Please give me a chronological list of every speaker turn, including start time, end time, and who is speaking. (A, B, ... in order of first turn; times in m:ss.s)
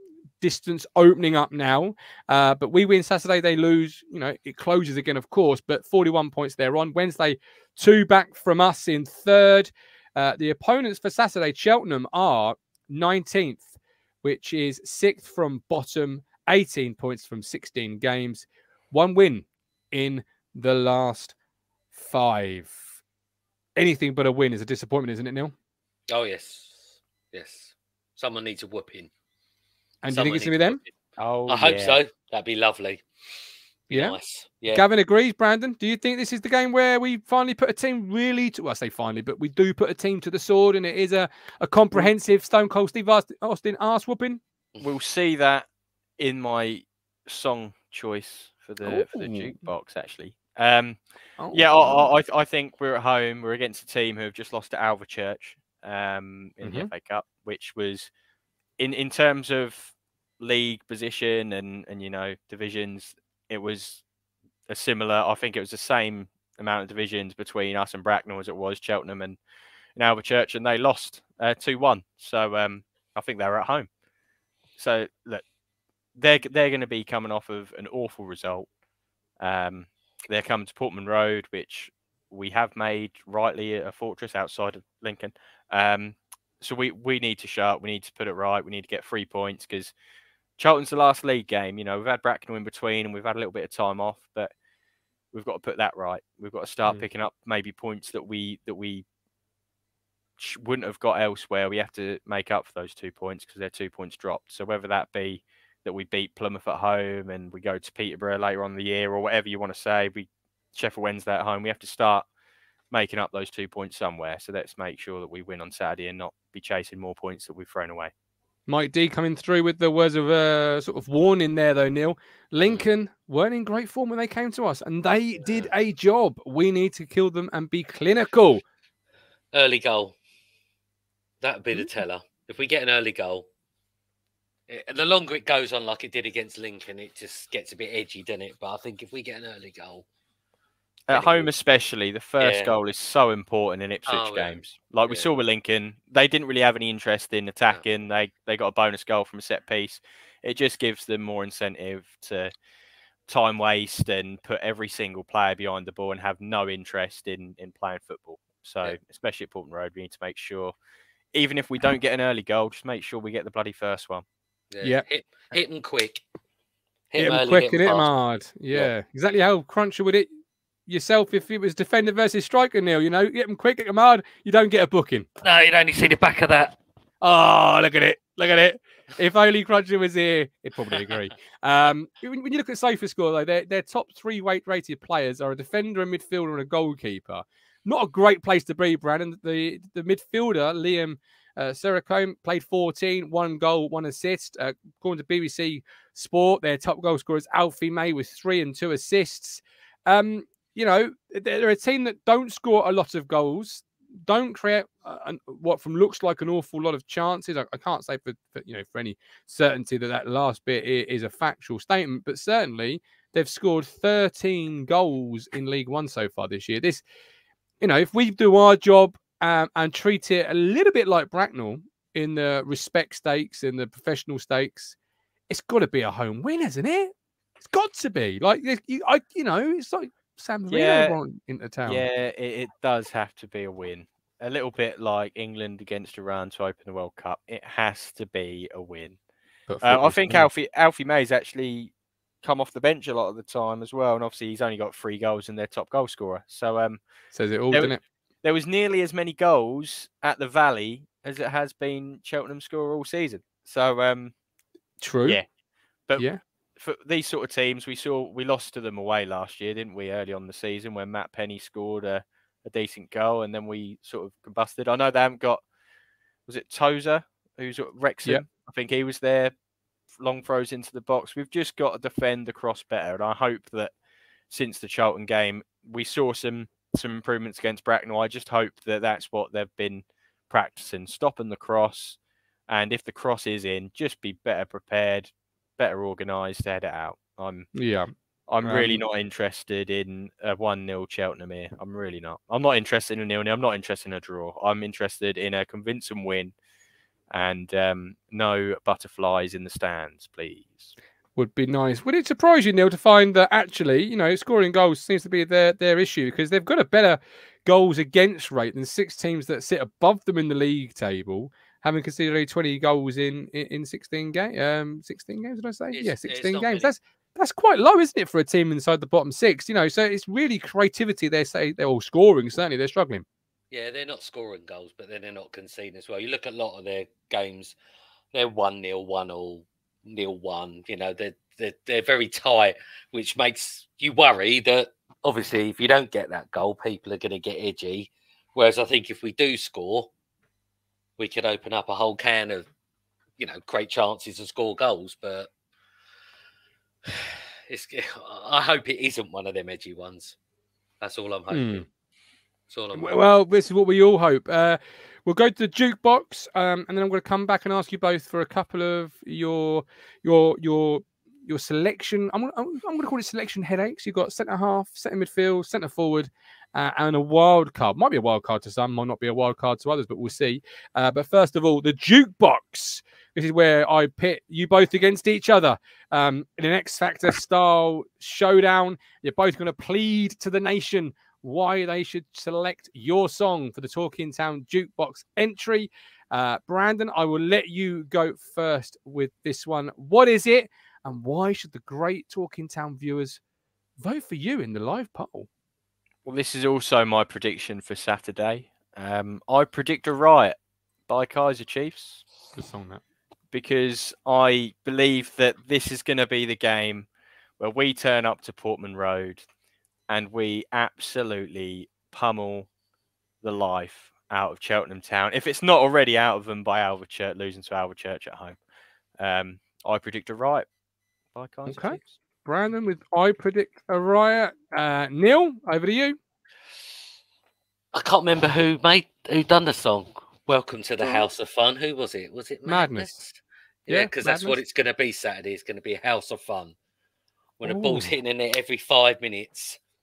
0:00.4-0:21.4 A
0:21.9-0:22.8 A
0:23.8-0:25.5 A
0:26.1-0:29.1 B
0:30.0-0:30.8 A
0:30.1-0:30.9 B
0:31.2-0:32.0 C
0:31.5-0:33.0 B
0:33.9-0:34.8 B
0:33.9-0:34.2 A
0:34.7-0:44.4 A
0:44.8-0:45.7 C
0:46.2-0:51.0 C
0:48.8-0:49.6 A
0:51.4-0:52.1 A
0:51.5-0:58.1 C
0:56.6-0:56.9 A
0:58.8-1:04.0 C
1:04.7-1:09.4 C
1:10.0-1:13.9 C
1:14.8-1:15.4 C
1:16.2-1:18.7 C
1:19.4-1:29.9 C
1:30.6-1:34.5 C
1:35.3-1:39.1 C
1:40.4-1:52.3 C
1:52.9-1:58.1 C
1:58.7-2:08.6 A
2:05.4-2:05.7 B
2:09.5-2:10.2 B
2:11.4-2:13.5 B
2:14.7-2:20.0 B
2:21.1-2:32.5 C
2:21.1-2:21.5 B
2:22.4-2:22.7 B
2:24.1-2:25.3 B
2:33.3-2:40.8 C
2:41.3-2:44.2 C
2:44.7-2:46.2 B
2:47.1-2:48.1 B
2:47.2-2:50.3 A
2:50.9-2:55.3 A
2:55.4-2:56.8 B
2:57.2-3:37.0 A
3:37.8-3:45.0 A
3:45.5-3:52.1 A
3:50.7-3:51.2 C
3:51.9-3:59.2 C
3:59.7-4:00.5 A
3:59.8-4:01.9 C
4:02.4-4:07.0 C
4:07.3-4:08.0 A
4:07.7-4:14.3 C
4:15.0-4:15.4 A
4:16.1-4:25.6 C
4:26.5-4:29.5 C
4:30.2-4:33.9 C
4:34.5-4:42.2 C
4:42.7-4:47.7 C
4:47.8-4:48.1 A
4:48.5-4:56.5 C
4:48.6-4:49.0 A
4:57.3-5:00.9 C
5:01.4-5:23.2 A
5:15.9-5:16.9 B
5:23.7-5:27.8 B
5:28.3-5:40.1 B
5:41.2-5:42.7 B
5:43.4-5:45.5 B
5:47.1-5:50.4 B
5:51.0-5:51.8 B
5:51.5-5:51.8 A
5:52.7-5:53.2 B
5:52.9-6:33.4 A
6:34.0-6:35.5 A
6:36.2-6:40.6 C
6:41.1-6:42.2 C
6:42.6-6:43.0 A
6:43.5-6:47.1 C
6:47.6-6:49.4 C
6:50.1-6:52.7 C
6:53.4-6:58.6 C
6:59.2-7:00.7 C
7:01.3-7:02.2 C
7:01.7-7:06.2 A
7:07.9-7:16.8 B
7:11.0-7:11.3 A
7:12.7-7:13.2 A
7:13.9-7:14.6 A
7:17.6-7:19.8 B
7:17.6-7:18.1 A